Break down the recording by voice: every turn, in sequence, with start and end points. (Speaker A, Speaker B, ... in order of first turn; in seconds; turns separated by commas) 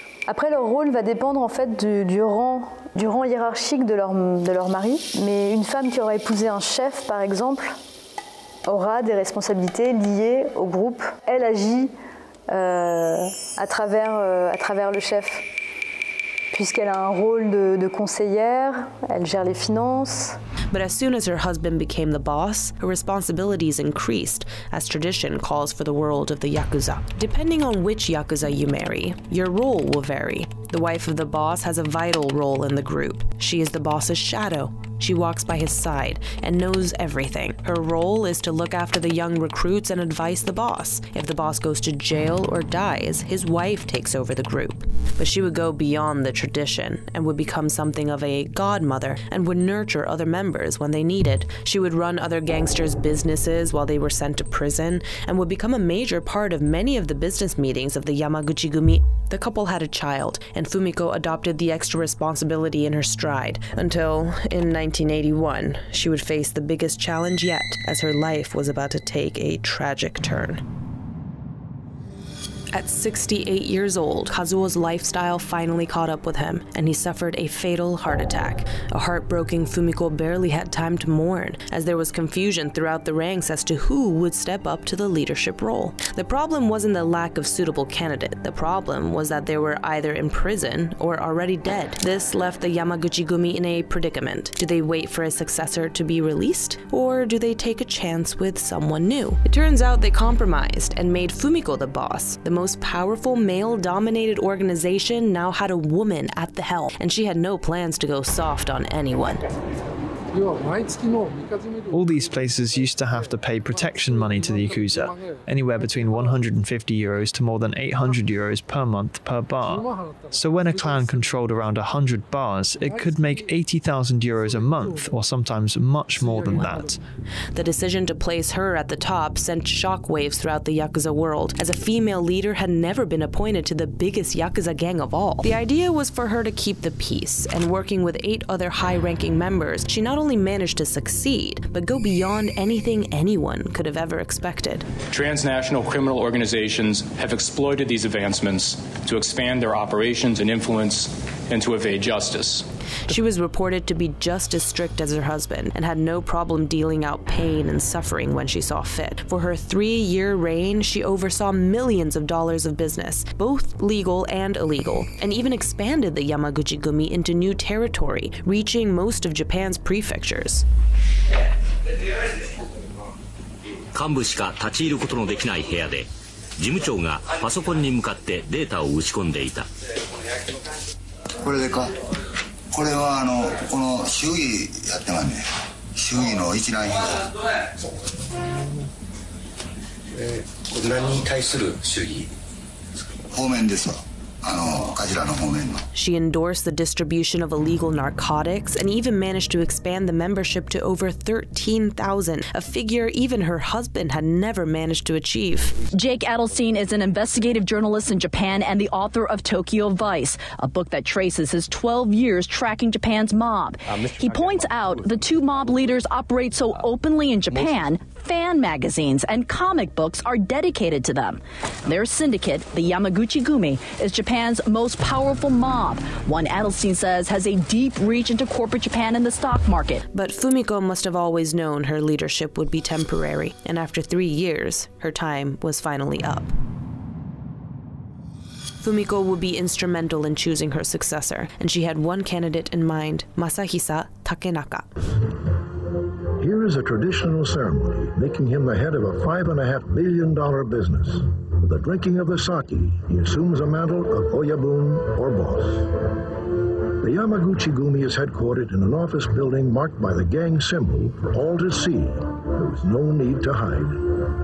Speaker A: 0.3-7.7, Speaker A: 8.7-11.9, Speaker A: 12.5-15.4, Speaker A: 16.5-20.4, Speaker B: 20.7-70.6, Speaker B: 72.7-109.5, Speaker C: 111.9-127.0, Speaker B: 127.5-144.9, Speaker D: 145.1-152.7, Speaker B: 153.1-170.7, Speaker E: 173.9-176.1, Speaker E: 176.6-179.7, Speaker F: 181.4-181.9, Speaker F: 182.7-187.2, Speaker F: 191.0-191.9, Speaker F: 193.3-195.8, Speaker B: 195.9-205.7, Speaker G: 205.9-230.0, Speaker B: 230.1-236.5, Speaker B: 238.8-244.9, Speaker H: 246.4-256.1, Speaker H: 257.0-264.1